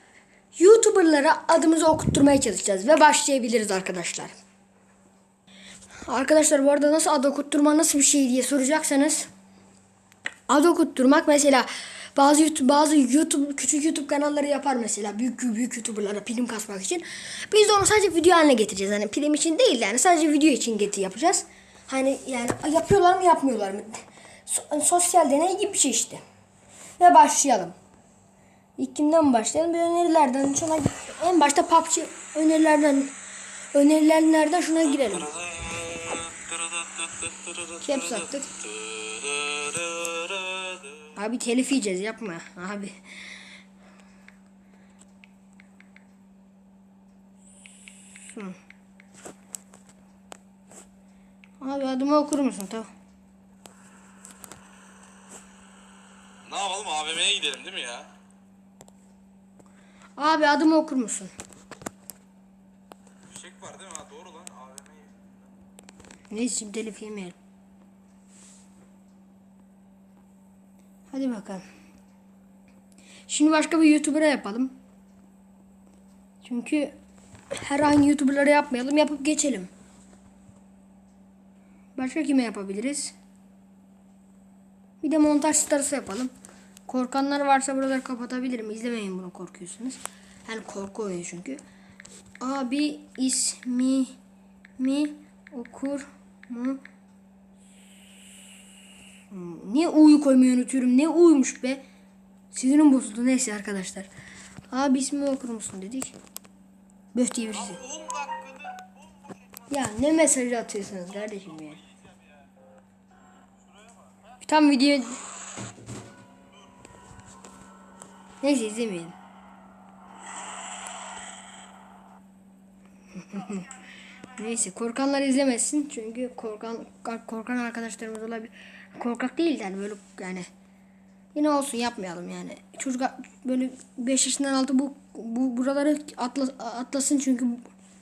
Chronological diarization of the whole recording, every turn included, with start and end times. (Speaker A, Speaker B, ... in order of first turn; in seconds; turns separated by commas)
Speaker A: 0.6-4.3, Speaker A: 6.1-9.3, Speaker A: 10.5-26.2, Speaker A: 27.0-27.8, Speaker A: 28.8-33.1, Speaker A: 33.7-35.4, Speaker A: 37.6-38.5, Speaker B: 39.0-40.6, Speaker A: 41.1-43.1, Speaker A: 48.1-48.6, Speaker A: 51.6-52.9, Speaker B: 56.5-58.1, Speaker A: 60.2-61.3, Speaker B: 63.3-65.0, Speaker A: 66.3-67.4, Speaker A: 71.1-71.7, Speaker A: 73.3-74.8, Speaker A: 76.4-76.9, Speaker A: 77.5-79.7, Speaker A: 82.0-83.2, Speaker A: 85.0-86.3, Speaker A: 86.9-91.6, Speaker A: 92.4-94.2, Speaker A: 94.8-96.8, Speaker A: 99.3-101.8, Speaker A: 102.5-104.1, Speaker A: 104.7-106.2, Speaker A: 107.1-108.0, Speaker A: 109.7-111.8, Speaker A: 114.4-115.2, Speaker A: 118.4-119.2, Speaker A: 123.2-130.5, Speaker A: 131.3-137.7